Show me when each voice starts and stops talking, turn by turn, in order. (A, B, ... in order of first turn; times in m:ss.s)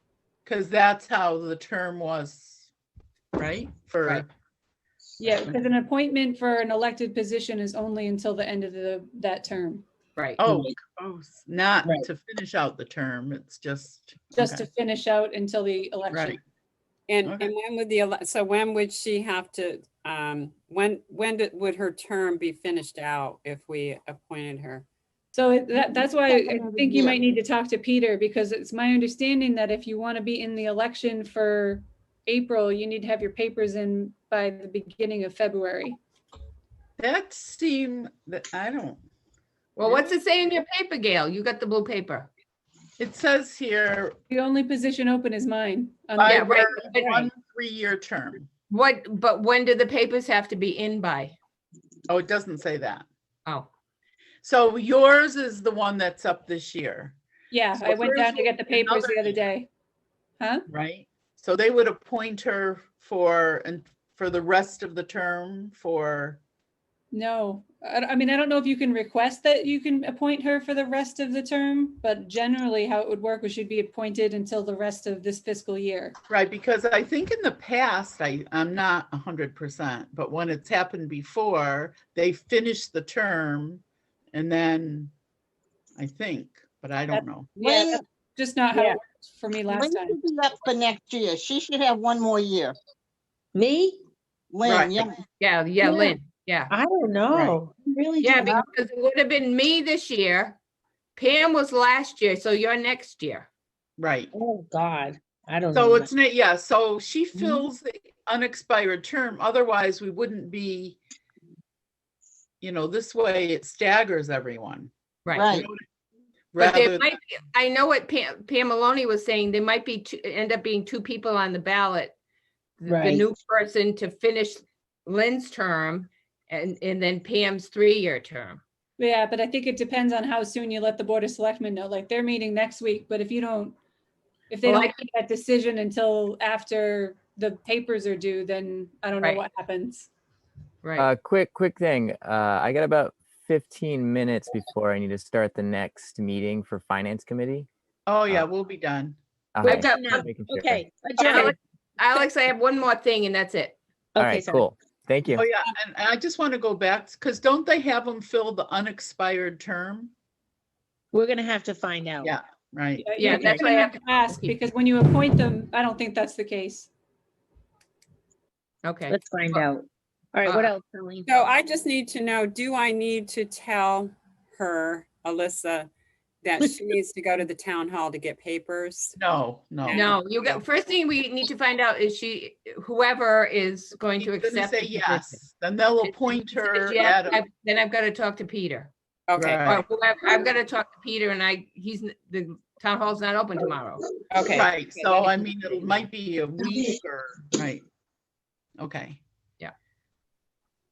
0:00.4-0:02.7 A
0:03.4-0:04.3 A
0:05.2-0:09.8 B
0:10.4-0:14.6 A
0:14.3-0:16.4 B
0:16.1-0:16.4 A
0:17.1-0:24.8 C
0:17.2-0:17.5 A
0:25.3-0:36.0 B
0:25.8-0:27.2 D
0:37.0-0:39.0 A
0:39.8-0:42.3 E
0:39.8-0:40.2 A
0:43.0-0:44.2 A
0:44.3-0:46.6 B
0:46.2-0:48.5 A
0:46.2-0:47.3 E
0:48.7-0:51.3 E
0:52.1-0:53.1 A
0:54.4-0:57.2 A
0:57.5-0:59.7 B
0:57.8-0:59.4 A
1:00.4-1:00.6 B
1:00.7-1:06.4 A
1:07.1-1:16.2 B
1:16.3-1:25.1 A
1:26.0-1:27.5 A
1:27.1-1:30.2 B
1:27.6-1:28.0 D
1:28.7-1:29.0 F
1:29.7-1:32.8 D
1:33.5-1:34.0 F
1:34.5-1:35.2 D
1:34.6-1:35.1 A
1:35.4-1:36.7 E
1:35.8-1:36.2 F
1:36.7-1:38.7 F
1:37.3-1:37.6 A
1:38.2-1:40.6 E
1:41.2-1:43.5 E
1:44.0-1:44.3 A
1:44.3-1:46.1 F
1:45.7-1:51.0 A
1:52.6-1:54.9 A
1:55.2-1:55.5 E
1:55.3-1:55.7 D
1:55.5-1:55.8 A
1:56.5-1:57.1 A
1:56.6-2:02.2 E
2:02.8-2:08.6 E
2:02.9-2:03.2 F
2:09.0-2:13.8 B
2:14.5-2:20.1 B
2:14.6-2:15.1 E
2:20.8-2:21.1 E
2:21.0-2:27.7 G
2:28.0-2:29.2 A
2:29.5-2:30.8 G
2:29.6-2:31.6 F
2:29.7-2:30.3 E
2:31.2-2:33.8 E
2:34.1-2:34.7 F
2:34.2-2:35.4 G
2:35.3-2:40.1 A
2:41.1-2:42.3 F
2:42.2-2:43.0 A
2:43.0-2:46.9 B
2:43.2-2:44.6 E
2:43.2-2:43.6 F
2:48.8-2:49.7 E
2:49.1-2:51.4 F
2:50.4-2:50.7 E
2:51.2-2:55.9 C
2:56.4-2:59.2 C
2:59.2-3:00.2 A
2:59.8-3:00.6 C
2:59.9-3:05.4 E
3:04.2-3:07.4 A
3:06.0-3:08.9 E
3:09.3-3:09.7 C
3:09.4-3:09.8 A
3:09.7-3:14.1 E
3:14.3-3:15.8 C
3:14.5-3:17.8 A
3:18.8-3:19.2 A